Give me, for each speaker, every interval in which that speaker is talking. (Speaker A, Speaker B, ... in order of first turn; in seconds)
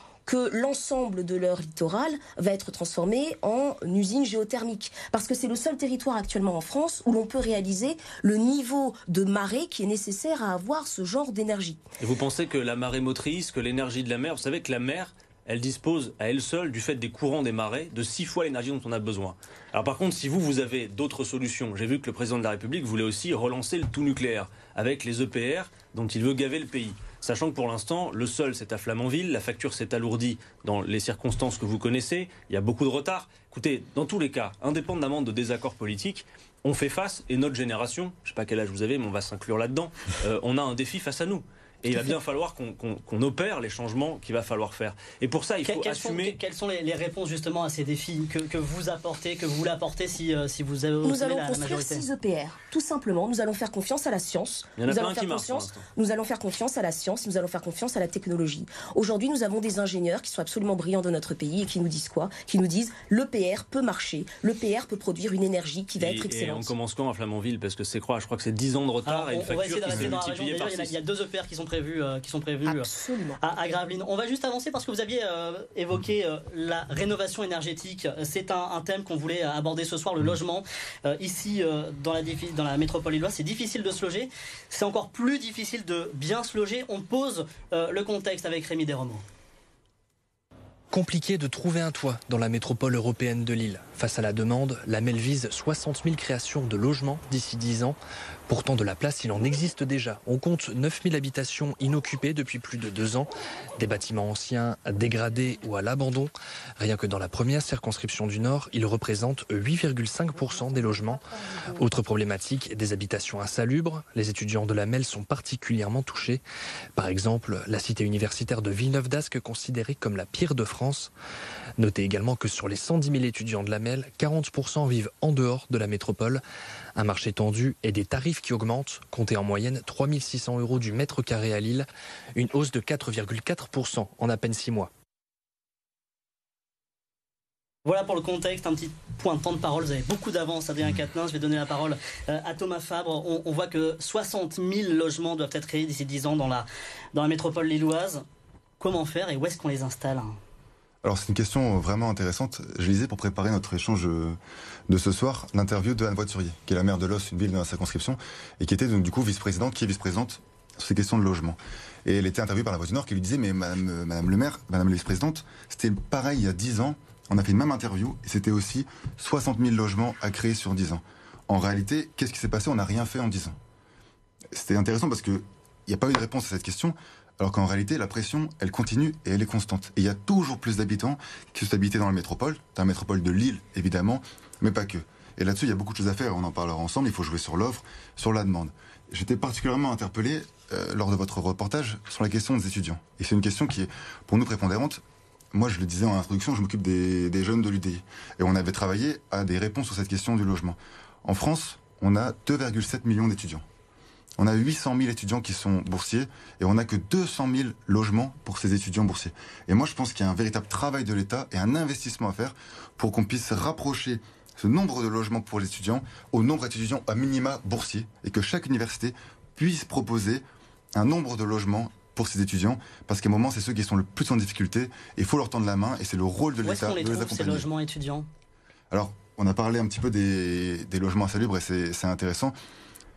Speaker A: 0.2-11.8, 51.0-66.7, 72.6-73.4
Speaker B: 12.0-46.4, 54.8-55.8, 66.0-71.0
Speaker C: 45.6-52.0, 69.1-89.2, 137.8-148.2, 148.8-150.4, 226.6-228.3
Speaker D: 90.9-98.0, 98.5-116.4, 116.9-121.1, 121.8-126.4, 127.0-134.9
Speaker E: 151.0-154.4, 154.9-173.6, 174.5-195.0, 195.5-203.6, 204.4-220.4, 220.9-227.7, 228.9-232.6